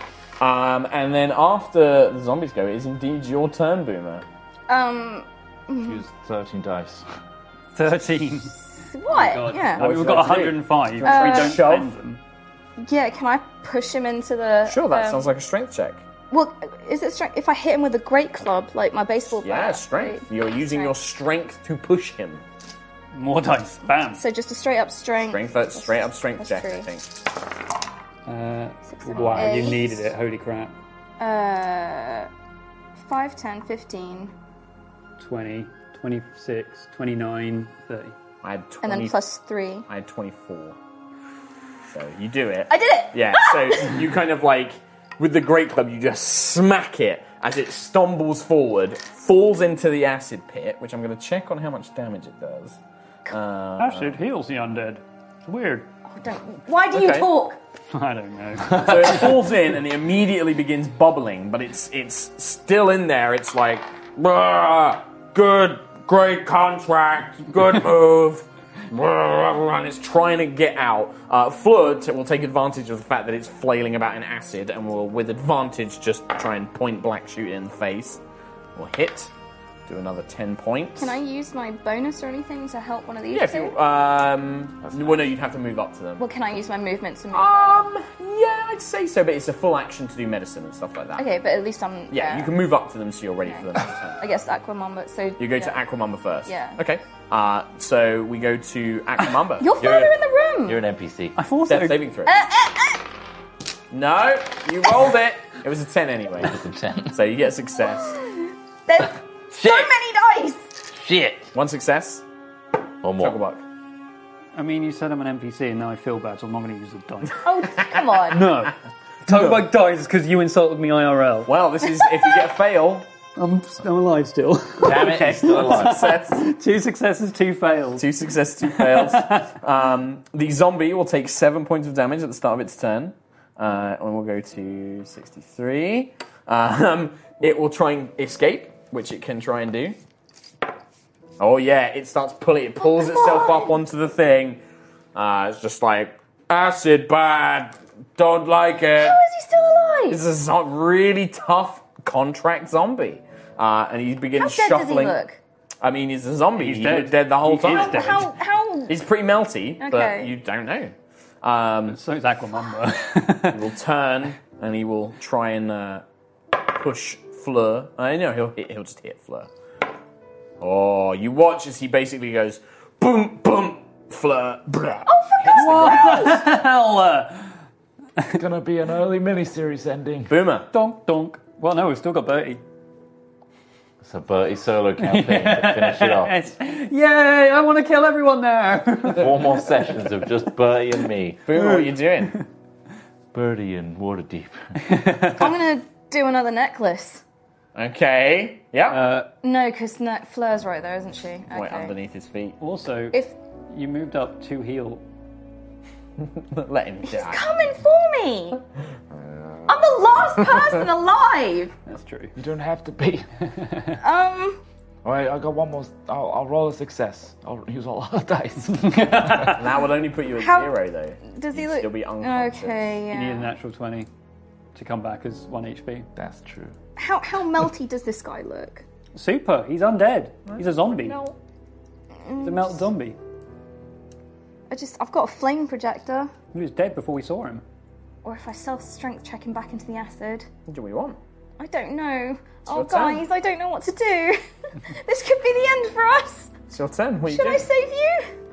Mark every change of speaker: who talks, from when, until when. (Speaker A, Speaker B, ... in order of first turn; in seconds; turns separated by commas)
Speaker A: 0.4-4.2, Speaker B: 4.7-6.0, Speaker C: 5.8-7.0, Speaker D: 7.8-8.6, Speaker B: 8.7-9.8, Speaker D: 9.1-12.2, Speaker A: 9.5-11.9, Speaker B: 11.0-11.6, Speaker B: 12.8-15.3, Speaker A: 14.7-16.0, Speaker B: 16.3-20.9, Speaker A: 19.4-22.4, Speaker D: 23.1-24.2, Speaker B: 24.1-26.9, Speaker A: 25.3-27.1, Speaker D: 28.3-30.8, Speaker B: 28.9-29.9, Speaker A: 29.2-29.9, Speaker B: 31.2-32.3, Speaker B: 33.0-34.3, Speaker D: 35.2-38.1, Speaker A: 38.4-39.2, Speaker B: 38.8-39.9, Speaker A: 39.9-40.8, Speaker A: 41.9-54.2, Speaker B: 42.7-44.0, Speaker D: 53.8-55.9, Speaker B: 56.1-57.6, Speaker D: 57.9-59.5, Speaker A: 58.7-78.2, Speaker A: 78.8-79.3, Speaker A: 79.9-81.2, Speaker B: 81.0-83.7, Speaker A: 83.3-86.2, Speaker C: 84.9-85.2, Speaker B: 86.2-87.8, Speaker A: 87.3-91.2, Speaker B: 91.2-92.5, Speaker A: 92.1-94.2, Speaker B: 93.5-95.8, Speaker A: 95.4-99.7, Speaker B: 96.5-96.8, Speaker B: 99.6-100.8, Speaker C: 99.8-100.1, Speaker C: 100.7-101.4, Speaker D: 101.3-102.1, Speaker A: 101.7-102.3, Speaker B: 102.3-103.0, Speaker A: 103.9-106.6, Speaker C: 106.4-107.2, Speaker A: 107.1-108.2, Speaker B: 108.2-110.7, Speaker C: 109.5-109.9, Speaker C: 110.9-111.5, Speaker A: 111.5-112.2, Speaker C: 113.0-113.4, Speaker A: 113.2-113.6, Speaker D: 114.5-117.4, Speaker B: 117.4-118.4, Speaker D: 118.3-121.5, Speaker A: 119.3-119.7, Speaker A: 121.5-123.1, Speaker D: 123.4-128.1, Speaker C: 124.8-126.1, Speaker A: 125.0-126.5, Speaker A: 128.0-140.0, Speaker D: 128.7-129.5, Speaker A: 141.4-144.6, Speaker B: 142.8-143.7, Speaker A: 145.2-149.2, Speaker B: 149.0-150.2, Speaker A: 150.1-155.2, Speaker B: 154.4-155.4, Speaker A: 155.8-158.2, Speaker D: 156.6-158.3, Speaker B: 157.7-158.9, Speaker A: 158.9-162.0, Speaker B: 159.8-160.3, Speaker D: 161.9-163.7, Speaker A: 163.5-166.1, Speaker A: 166.6-169.5, Speaker A: 170.6-176.4, Speaker B: 175.1-176.4, Speaker D: 175.5-177.6, Speaker E: 178.3-180.3, Speaker A: 180.3-180.7, Speaker D: 180.7-182.6, Speaker C: 184.0-186.5, Speaker D: 185.0-189.7, Speaker C: 189.1-191.5, Speaker A: 191.5-192.4, Speaker D: 191.5-192.4, Speaker C: 193.3-194.8, Speaker D: 194.8-195.5, Speaker B: 195.3-197.2, Speaker A: 197.8-199.1, Speaker D: 198.9-199.3, Speaker B: 199.4-201.9, Speaker A: 201.5-202.6, Speaker D: 202.6-203.2, Speaker D: 203.7-205.0, Speaker A: 206.2-207.5, Speaker B: 207.0-208.6, Speaker A: 209.3-209.6, Speaker B: 209.7-211.7, Speaker A: 210.4-210.7, Speaker D: 211.9-212.3, Speaker E: 212.4-213.3, Speaker D: 213.6-213.9, Speaker B: 214.0-214.6, Speaker E: 215.0-219.1, Speaker D: 218.7-219.7, Speaker A: 219.4-222.9, Speaker B: 220.4-220.7, Speaker B: 221.3-223.5, Speaker D: 223.1-224.1, Speaker D: 224.7-226.1, Speaker E: 226.2-226.7, Speaker B: 227.0-228.8, Speaker D: 229.2-231.2, Speaker A: 230.5-231.3, Speaker B: 232.2-232.8, Speaker D: 232.4-233.2, Speaker B: 234.7-236.3, Speaker D: 236.5-237.6, Speaker B: 238.2-240.5, Speaker A: 240.7-241.2, Speaker B: 241.6-244.4, Speaker A: 242.7-243.2, Speaker B: 244.9-246.5, Speaker A: 246.7-247.7, Speaker B: 247.3-248.3